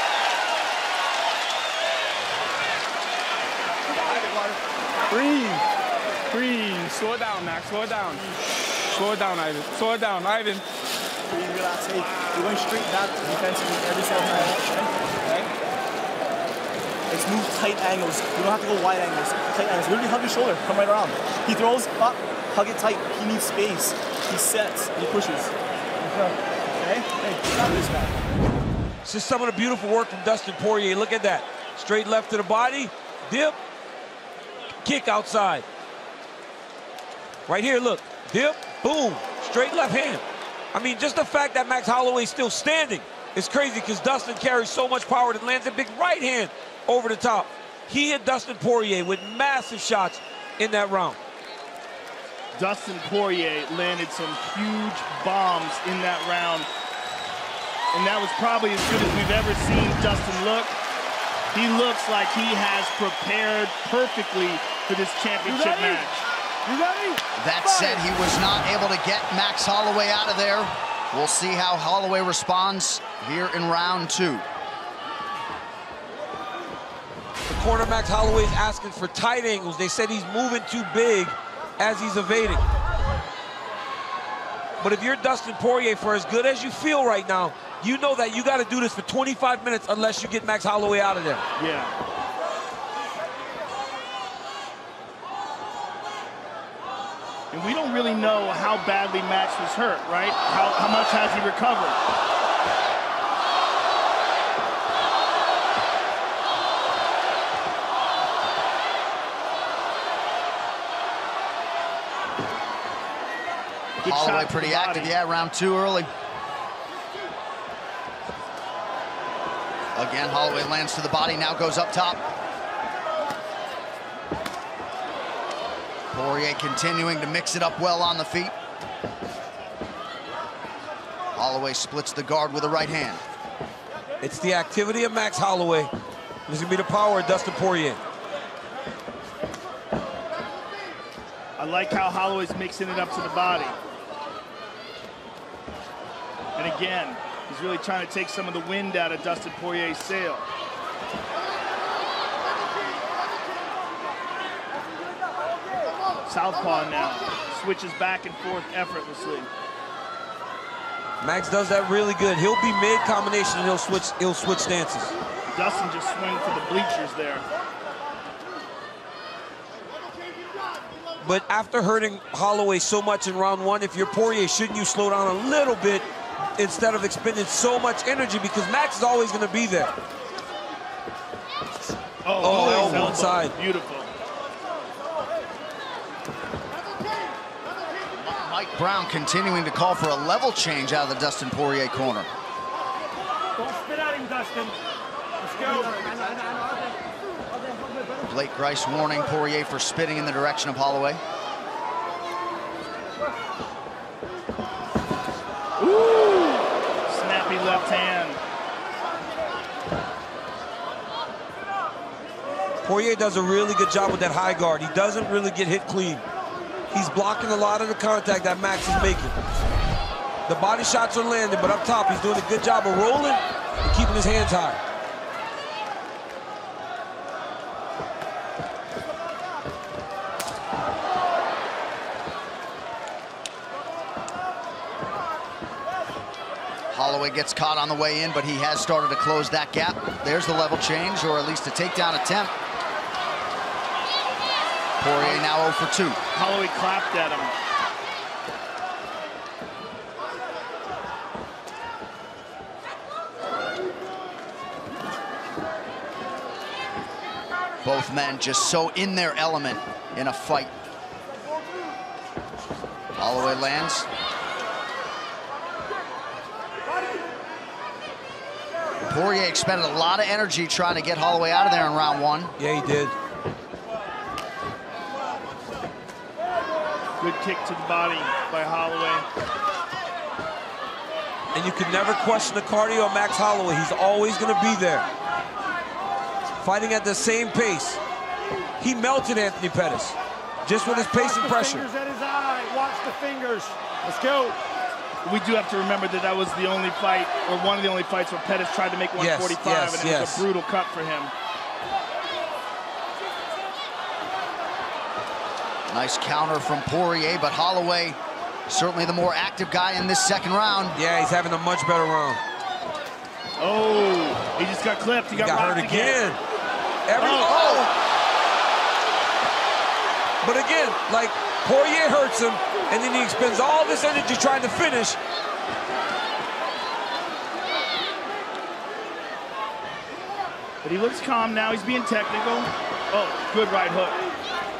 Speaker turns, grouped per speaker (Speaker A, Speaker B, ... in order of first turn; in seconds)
Speaker A: 4.0-4.6, 11.3-14.9, 17.1-25.5, 26.7-28.2
Speaker B: 5.1-5.6, 6.3-8.3, 8.8-10.6, 65.5-66.0, 66.7-67.2, 194.2-194.7
Speaker C: 29.1-33.6, 34.8-35.6, 37.5-51.2, 77.5-82.6, 84.8-91.4, 134.2-135.9, 136.5-138.0, 161.2-165.2, 171.2-179.9, 182.4-183.6, 212.9-216.2, 216.9-219.3, 220.5-224.8, 272.6-273.1, 281.5-285.1, 286.6-288.0, 288.8-291.9, 299.2-300.4, 310.9-312.4, 315.3-316.4, 317.1-317.8, 320.4-325.2
Speaker D: 52.6-56.7, 57.9-60.7, 61.5-66.3, 91.6-91.9, 97.5-102.0, 114.0-115.1, 141.6-143.8, 146.6-150.5, 156.3-159.5, 165.5-167.4, 182.2-184.1, 205.8-208.4, 246.3-247.5, 277.2-279.2, 295.2-301.3, 313.6-316.2, 317.2-317.9, 330.8-334.2
Speaker E: 67.4-74.4, 114.0-116.1, 120.0-122.2, 126.1-128.5, 131.3-133.2, 188.2-192.3, 198.2-201.2, 236.9-242.5, 245.0-246.2, 257.8-260.7, 263.2-264.1, 269.1-272.5, 305.9-311.0, 317.4-317.9
Speaker F: 290.8-294.6